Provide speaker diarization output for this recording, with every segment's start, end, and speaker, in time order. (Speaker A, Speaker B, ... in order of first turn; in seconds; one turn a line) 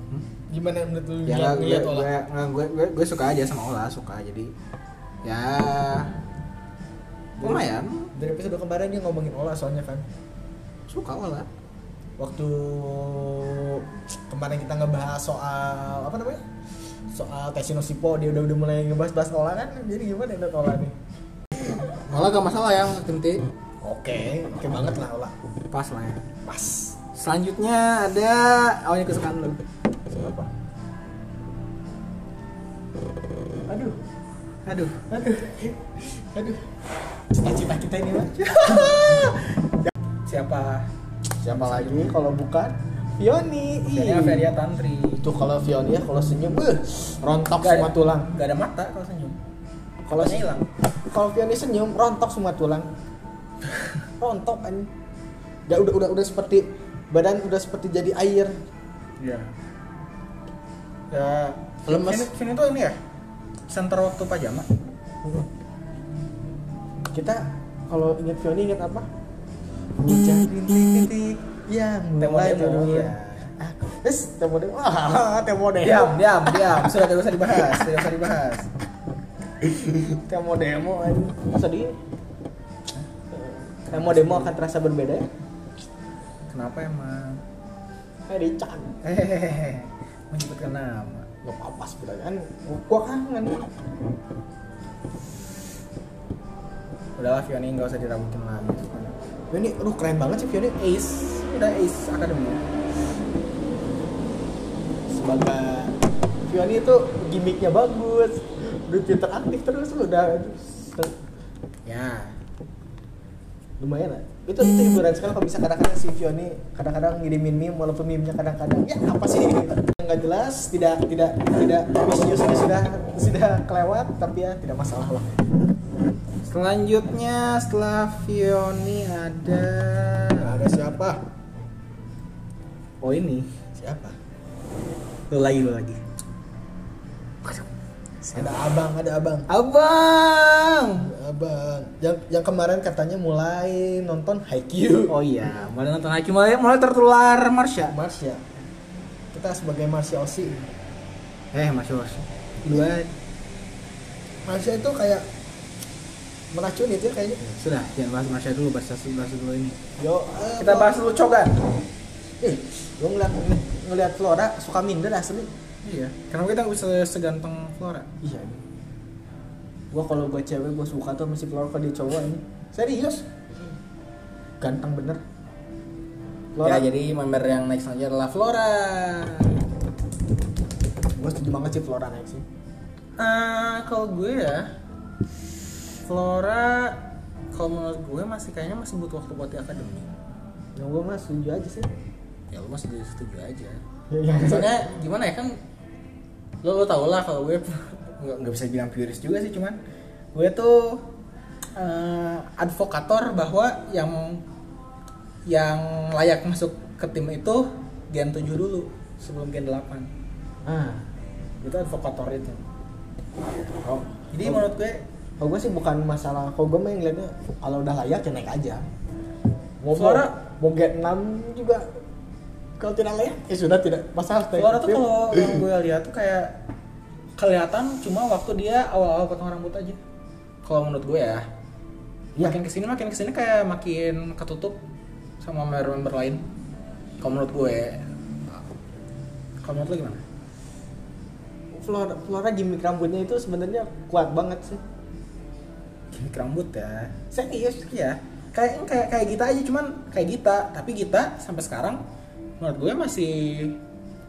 Speaker A: 0.5-2.1
Speaker B: 1.3-4.5
Speaker B: 5.2-6.1
Speaker A: 7.4-10.1
Speaker B: 7.4-8.1
Speaker B: 10.9-11.5
Speaker A: 12.2-16.4
Speaker A: 17.1-20.9
Speaker B: 21.7-23.5
Speaker A: 23.8-25.4
Speaker B: 25.7-26.3
Speaker A: 26.4-26.9
Speaker B: 27.1-29.6
Speaker A: 30.1-30.5
Speaker A: 33.7-34.0
Speaker B: 34.7-35.1
Speaker A: 35.1-36.7
Speaker A: 37.3-39.9
Speaker B: 38.4-39.5
Speaker B: 40.3-40.9
Speaker A: 41.4-44.5
Speaker B: 41.5-42.1
Speaker B: 43.9-45.3
Speaker A: 45.2-48.3
Speaker B: 47.6-49.4
Speaker A: 50.1-50.5
Speaker B: 50.1-50.7
Speaker A: 51.1-52.9
Speaker A: 54.2-54.9
Speaker A: 55.7-58.5
Speaker B: 59.2-59.5
Speaker B: 61.1-63.0
Speaker A: 61.9-62.3
Speaker B: 63.7-64.7
Speaker A: 67.1-69.1
Speaker A: 70.0-77.0
Speaker B: 72.2-73.5
Speaker B: 75.8-78.7
Speaker A: 77.5-77.9
Speaker A: 79.6-82.0
Speaker A: 83.3-85.3
Speaker B: 83.9-84.5
Speaker B: 86.5-87.4
Speaker A: 88.3-88.9
Speaker B: 89.0-91.3
Speaker A: 91.4-93.8
Speaker B: 97.2-99.1
Speaker A: 99.5-100.8
Speaker B: 100.8-102.6
Speaker A: 105.1-106.0
Speaker A: 106.5-111.2
Speaker B: 111.9-112.4
Speaker A: 113.8-125.3
Speaker B: 126.5-130.8
Speaker A: 130.4-131.2
Speaker B: 133.0-133.5
Speaker A: 133.8-134.2
Speaker B: 135.3-136.0
Speaker A: 138.2-139.5
Speaker B: 139.5-141.1
Speaker A: 141.0-145.2
Speaker B: 145.1-148.0
Speaker A: 147.9-148.4
Speaker A: 149.3-150.6
Speaker B: 151.5-153.1
Speaker A: 154.5-155.2
Speaker A: 156.5-157.5
Speaker B: 157.5-159.8
Speaker A: 160.0-161.0
Speaker B: 160.6-161.6
Speaker A: 162.4-165.5
Speaker B: 165.8-168.1
Speaker A: 168.2-168.6
Speaker A: 169.9-173.3
Speaker A: 174.6-175.2
Speaker A: 176.6-176.9
Speaker B: 176.6-179.5
Speaker A: 181.2-182.4
Speaker B: 183.2-184.7
Speaker B: 186.1-187.0
Speaker B: 187.5-190.1
Speaker A: 190.8-191.9
Speaker B: 192.5-193.8
Speaker A: 194.1-194.9
Speaker B: 194.3-195.6
Speaker B: 196.6-199.8
Speaker B: 200.3-201.0
Speaker B: 201.8-204.4
Speaker B: 205.5-210.1
Speaker A: 210.7-211.1
Speaker B: 211.6-212.6
Speaker A: 213.8-214.7
Speaker B: 214.3-215.0
Speaker A: 215.4-218.8
Speaker A: 219.8-221.8
Speaker B: 219.9-220.4
Speaker A: 222.8-225.6
Speaker B: 224.6-226.6
Speaker B: 227.4-230.0
Speaker B: 230.6-231.5
Speaker B: 232.4-234.8
Speaker B: 235.4-236.4
Speaker B: 237.2-238.6
Speaker B: 239.6-240.2
Speaker A: 241.7-244.8
Speaker B: 246.1-252.0
Speaker B: 252.6-253.8